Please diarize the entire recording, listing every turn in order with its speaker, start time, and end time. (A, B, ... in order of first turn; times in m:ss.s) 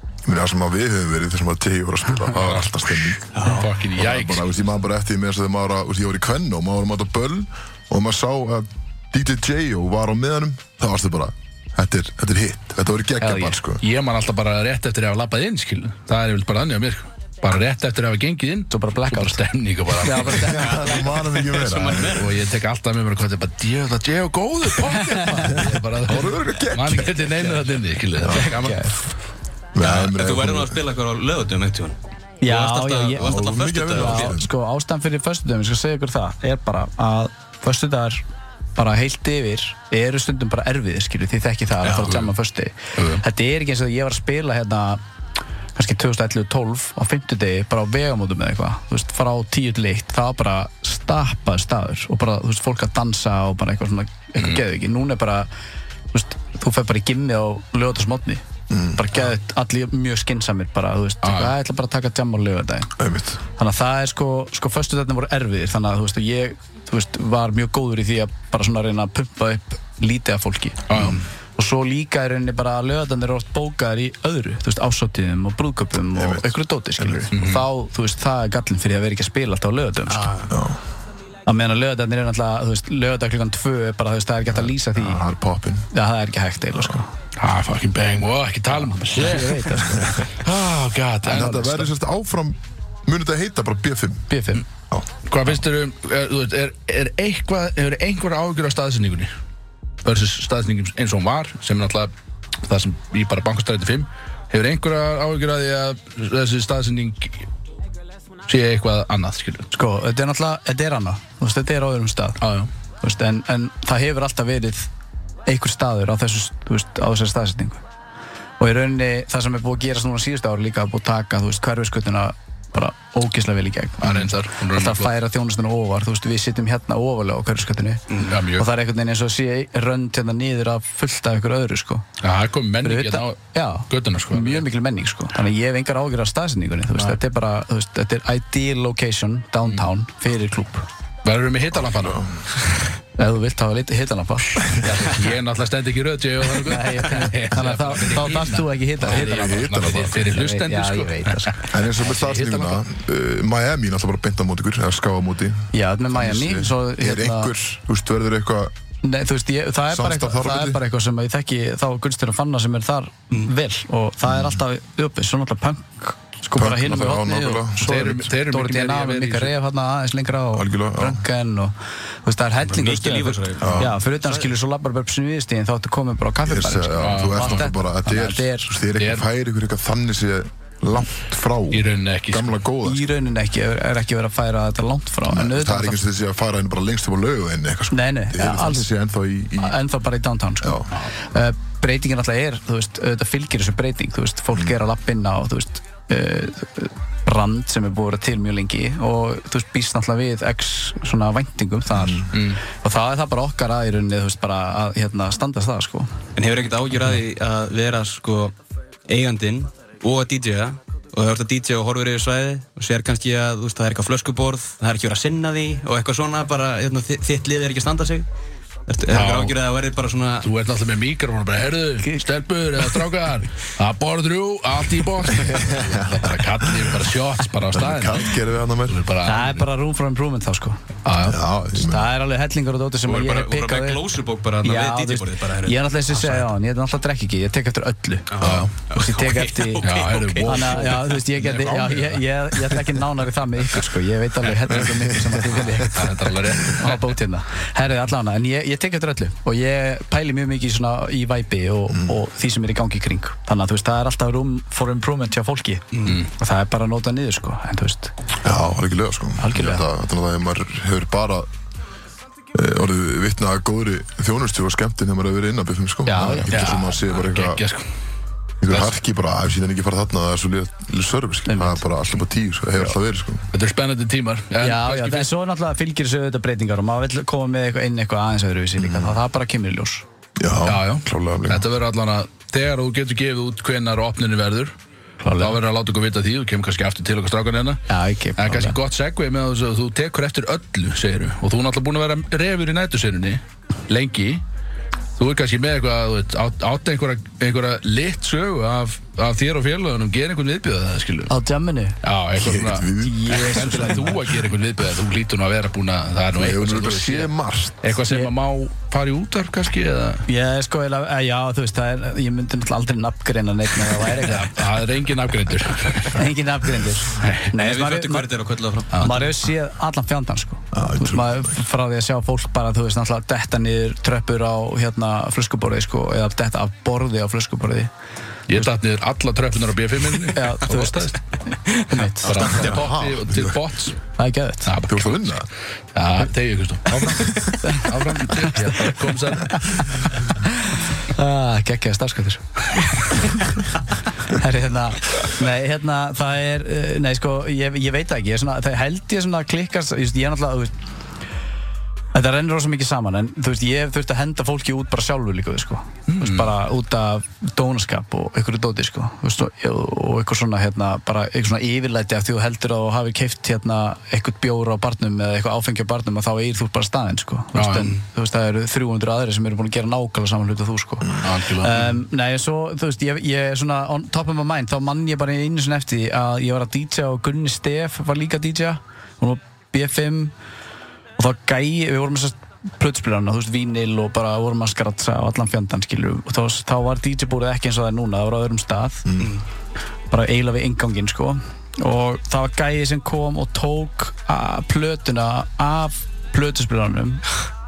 0:00.2-0:13.8 A
0:02.3-0:04.6 B
0:13.2-0:13.6 C
0:13.8-0:20.5 B
0:18.7-0:19.4 C
0:20.0-0:21.0 C
0:20.2-0:22.3 A
0:20.4-0:22.3 D
0:22.0-0:28.9 B
0:25.1-0:25.6 C
0:25.5-0:27.6 A
0:28.2-0:28.5 A
0:28.3-0:29.0 C
0:29.7-0:30.8 A
0:29.8-0:34.4 D
0:32.4-0:38.2 C
0:33.2-0:34.5 A
0:38.7-0:45.0 C
0:41.8-0:42.2 D
0:43.0-0:43.2 B
0:45.8-0:55.5 C
0:56.1-1:02.9 C
0:58.7-0:59.0 A
1:01.2-1:01.5 B
1:03.0-1:03.4 A
1:03.6-1:20.4 C
1:10.9-1:11.2 B
1:16.1-1:17.3 A
1:17.3-1:17.6 B
1:20.1-1:20.5 D
1:20.5-1:20.8 A
1:21.4-1:25.2 C
1:24.9-1:25.9 A
1:25.9-1:27.1 C
1:27.4-1:31.7 B
1:28.7-1:30.2 C
1:29.8-1:30.2 A
1:31.2-1:34.3 A
1:31.3-1:31.9 C
1:34.3-1:34.6 C
1:35.3-1:39.3 B
1:40.0-1:42.1 B
1:42.6-1:47.4 B
1:48.4-1:49.7 B
1:49.7-1:52.4 C
1:52.4-1:52.7 B
1:53.0-1:54.9 C
1:55.4-1:57.8 C
1:58.6-2:12.0 C
2:04.0-2:05.1 B
2:08.3-2:08.7 B
2:12.2-2:13.4 B
2:12.8-2:20.8 C
2:13.9-2:14.6 B
2:21.2-2:22.3 B
2:21.9-2:22.4 A
2:23.2-2:24.9 C
2:24.7-2:32.8 B
2:26.6-2:31.7 C
2:29.0-2:30.3 A
2:31.7-2:38.7 A
2:35.7-2:37.5 C
2:39.0-2:51.7 C
2:39.9-2:40.8 A
2:44.3-2:44.6 A
2:46.6-2:47.8 A
2:47.8-2:49.5 B
2:50.5-2:51.2 A
2:52.2-2:58.7 C
2:52.6-2:54.5 D
2:53.6-2:53.9 A
2:56.4-3:03.0 A
2:57.0-2:57.7 B
2:59.0-2:59.2 B
3:01.7-3:02.6 B
3:02.8-3:06.0 C
3:05.3-3:09.8 A
3:07.9-3:08.9 C
3:09.6-3:26.1 C
3:10.6-3:10.9 A
3:21.9-3:22.2 A
3:22.3-3:22.6 B
3:26.4-3:28.5 D
3:29.1-3:38.3 D
3:38.9-3:40.5 D
3:39.1-3:39.6 B
3:40.4-3:49.6 B
3:45.5-3:46.9 A
3:47.7-3:49.0 A
3:49.2-3:50.8 C
3:51.0-3:51.4 B
3:51.2-3:52.1 A
3:51.7-3:54.0 C
3:53.0-3:56.5 D
3:54.6-3:59.9 C
3:58.3-4:01.2 D
3:58.4-3:58.7 A
3:58.4-3:58.7 B
3:59.8-4:02.8 B
4:00.4-4:18.1 C
4:05.7-4:07.1 B
4:18.4-4:21.5 A
4:19.4-4:19.8 C
4:22.5-4:27.6 A
4:26.0-4:26.7 C
4:26.5-4:27.9 B
4:28.6-4:33.5 A
4:31.5-4:31.8 C
4:33.5-4:35.3 B
4:34.6-4:40.0 C
4:38.8-4:39.2 A
4:40.4-4:41.7 A
4:40.6-4:44.7 B
4:45.2-4:45.6 C
4:45.4-4:47.9 B
4:47.9-4:48.8 C
4:48.4-4:54.4 B
4:55.2-5:01.3 B
5:01.3-5:02.0 C
5:02.0-5:07.3 B
5:02.4-5:03.8 A
5:03.0-5:04.3 C
5:06.3-5:07.9 A
5:07.8-5:10.2 B
5:10.3-5:14.6 C
5:14.0-5:16.3 B
5:16.1-5:18.3 C
5:17.1-5:17.5 B
5:17.5-5:19.3 D
5:18.9-5:27.9 C
5:20.7-5:21.6 A
5:28.5-5:31.2 B
5:30.3-5:31.2 C
5:31.8-5:32.4 C
5:32.2-5:34.0 B
5:32.3-5:33.6 A
5:34.2-5:34.7 C
5:34.6-5:40.1 B
5:34.8-5:35.5 A
5:37.6-5:38.7 C
5:39.5-5:39.8 C
5:40.4-5:43.6 C
5:44.2-5:50.8 C
5:52.1-6:20.3 C
5:56.1-5:56.5 B
6:07.5-6:07.9 B
6:11.2-6:11.8 B
6:21.2-6:29.1 C
6:29.0-6:29.4 A
6:30.1-6:37.2 C